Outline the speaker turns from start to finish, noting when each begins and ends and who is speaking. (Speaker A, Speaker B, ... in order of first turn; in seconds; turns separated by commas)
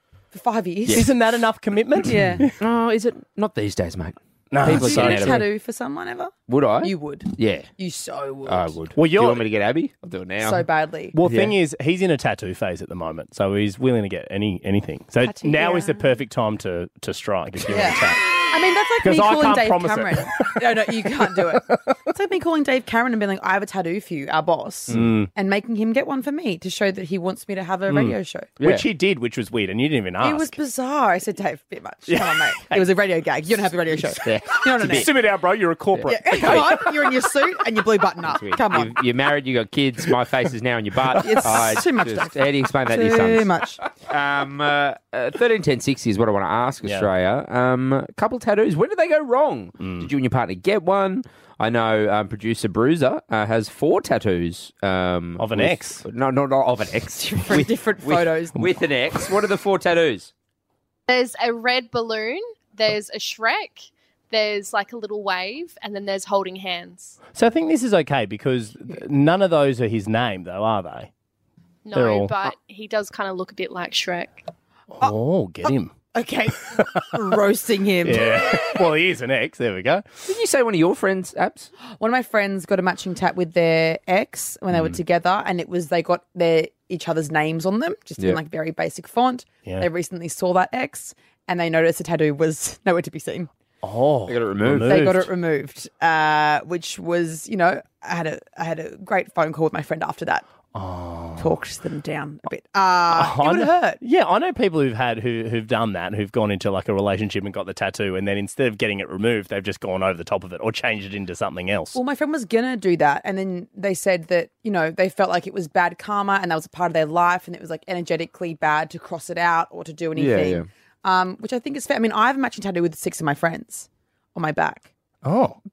Speaker A: 0.3-1.1, Speaker B: 0.9-2.5, Speaker A: 2.0-2.5, Speaker C: 2.6-5.5, Speaker B: 4.5-5.4, Speaker A: 4.6-8.8, Speaker C: 6.5-7.7, Speaker C: 8.4-10.7, Speaker B: 9.0-9.5, Speaker A: 10.4-11.1, Speaker B: 11.1-18.4, Speaker C: 11.2-11.5, Speaker A: 15.2-16.0, Speaker A: 17.7-28.5, Speaker B: 19.0-20.9, Speaker B: 24.9-25.3, Speaker B: 27.9-30.5, Speaker C: 28.6-28.8, Speaker A: 30.2-35.1, Speaker B: 32.1-32.8, Speaker C: 34.2-35.1, Speaker B: 34.8-36.9, Speaker C: 36.0-36.7, Speaker A: 36.0-38.9, Speaker C: 38.3-60.3, Speaker A: 41.1-43.8, Speaker B: 49.8-50.1, Speaker B: 55.4-56.0, Speaker A: 57.2-58.6, Speaker D: 61.1-67.2, Speaker B: 67.3-71.1, Speaker D: 71.8-74.4, Speaker B: 71.9-72.5, Speaker B: 75.0-75.9, Speaker A: 76.1-78.7, Speaker B: 78.0-80.1, Speaker C: 80.2-81.7, Speaker A: 82.0-93.5, Speaker B: 93.8-95.3, Speaker C: 94.3-95.1, Speaker A: 94.9-100.4, Speaker B: 100.7-101.5, Speaker A: 101.4-104.0, Speaker B: 103.1-112.0, Speaker A: 111.9-124.9, Speaker C: 120.2-120.7, Speaker B: 125.2-125.6